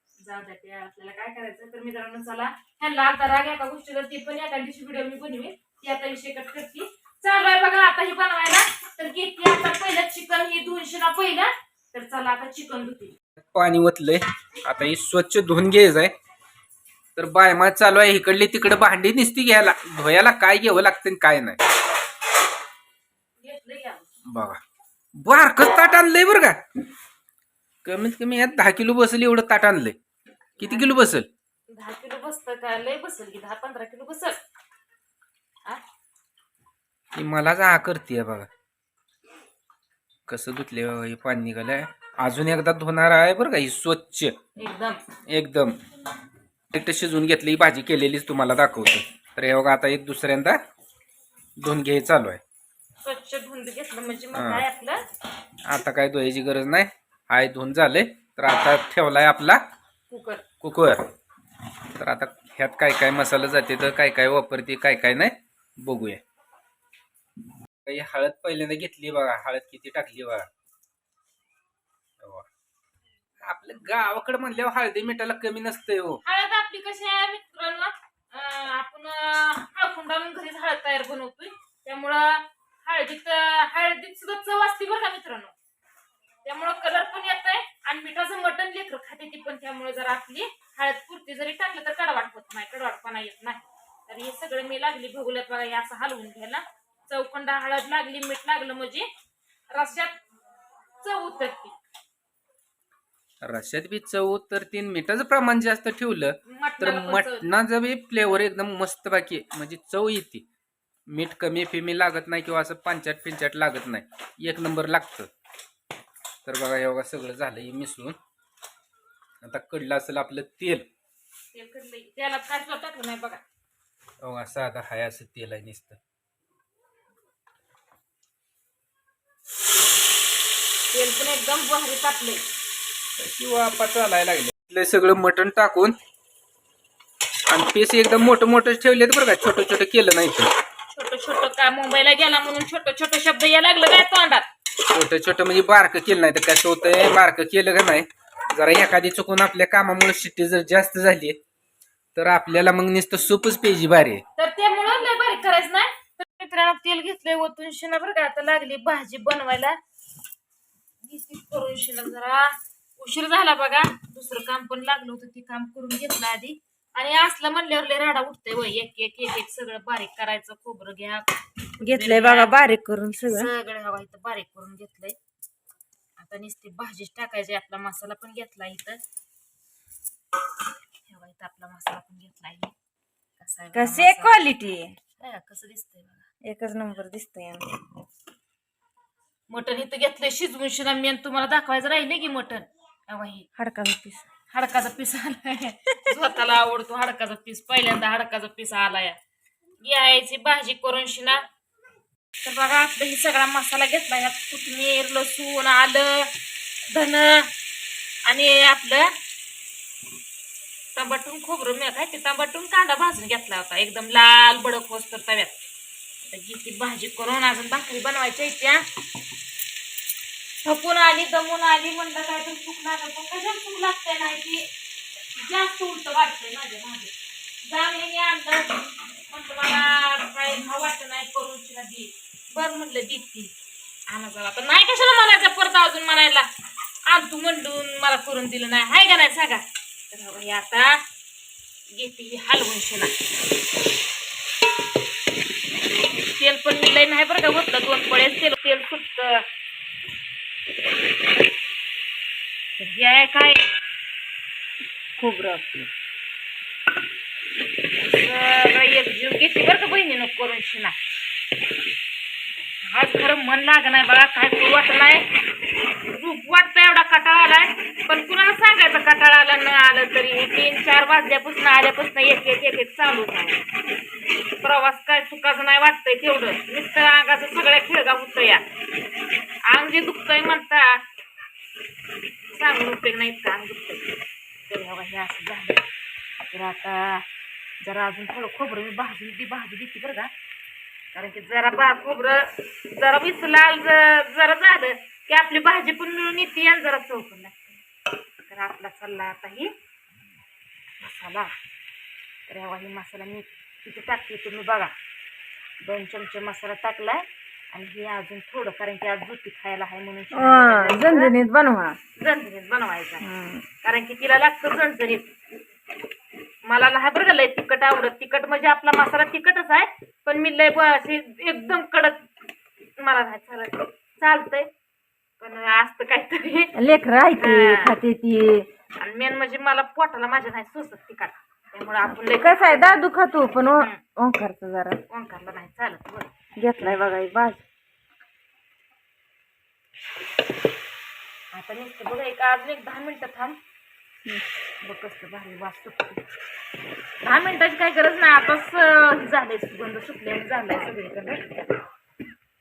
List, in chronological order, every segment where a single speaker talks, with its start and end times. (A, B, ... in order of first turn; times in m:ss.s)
0:00.2-0:13.1 A
0:13.5-0:16.1 B
0:17.2-0:21.6 B
0:23.4-0:24.1 A
0:24.3-0:24.6 B
0:25.2-0:26.6 B
0:27.8-0:30.0 B
0:30.6-0:30.9 A
0:30.6-0:31.3 B
0:31.7-0:34.4 A
0:37.1-0:38.5 B
0:40.3-0:44.3 B
0:44.6-0:45.0 A
0:45.3-0:45.8 B
0:46.7-0:50.6 B
0:51.6-0:52.4 B
0:53.0-0:55.0 A
0:54.3-0:54.6 B
0:55.6-0:59.6 B
1:00.1-1:00.4 A
1:00.6-1:01.0 B
1:01.9-1:06.2 B
1:07.8-1:10.4 B
1:12.2-1:12.5 B
1:13.4-1:16.2 B
1:16.2-1:25.5 A
1:26.4-1:39.0 A
1:39.7-1:40.2 A
1:41.0-1:41.7 A
1:43.4-1:50.4 B
1:46.5-1:47.5 A
1:51.1-1:55.3 B
1:56.4-1:58.2 B
1:59.4-2:00.8 B
2:01.5-2:03.4 A
2:04.2-2:06.0 B
2:10.9-2:12.4 A
2:13.2-2:16.0 B
2:17.5-2:20.5 B
2:20.9-2:24.5 A
2:24.9-2:31.4 B
2:32.2-2:34.2 B
2:34.4-2:39.8 A
2:41.0-2:51.3 A
2:51.8-2:53.5 C
2:51.8-2:52.5 A
2:53.1-2:55.2 A
2:56.2-2:59.0 A
3:01.0-3:02.7 A
3:03.4-3:04.3 A
3:03.7-3:05.0 C
3:05.2-3:06.2 A
3:06.4-3:07.7 C
3:09.5-3:13.5 A
3:13.6-3:14.2 C
3:14.5-3:19.2 A
3:19.8-3:21.4 A
3:22.4-3:26.3 A
3:26.9-3:27.5 A
3:28.2-3:29.1 A
3:31.0-3:35.5 A
3:36.3-3:38.8 A
3:40.6-3:44.6 A
3:45.3-3:53.5 A
3:54.1-3:56.5 A
3:57.1-4:01.0 A
4:01.9-4:03.1 A
4:06.2-4:09.4 A
4:12.8-4:13.6 A
4:15.2-4:15.9 C
4:18.0-4:21.0 A
4:22.8-4:25.3 A
4:26.1-4:33.6 A
4:34.6-4:38.6 A
4:39.7-4:41.0 A
4:42.5-4:44.1 A
4:44.7-4:45.8 A
4:46.4-4:47.2 A
4:47.8-4:50.3 A
4:51.1-4:57.8 A
4:58.5-4:59.7 A
5:01.0-5:01.5 A
5:02.5-5:04.9 A
5:05.8-5:11.3 A
5:10.3-5:12.0 C
5:12.2-5:13.2 A
5:13.2-5:13.6 C
5:13.8-5:15.3 A
5:16.6-5:22.2 A
5:23.0-5:24.7 A
5:25.4-5:26.8 A
5:26.7-5:28.7 C
5:27.4-5:28.0 A
5:29.0-5:33.1 A
5:32.0-5:35.0 C
5:33.6-5:34.0 A
5:35.1-5:36.3 A
5:36.6-5:37.6 C
5:41.5-5:43.6 A
5:44.8-5:46.2 A
5:47.2-5:51.4 A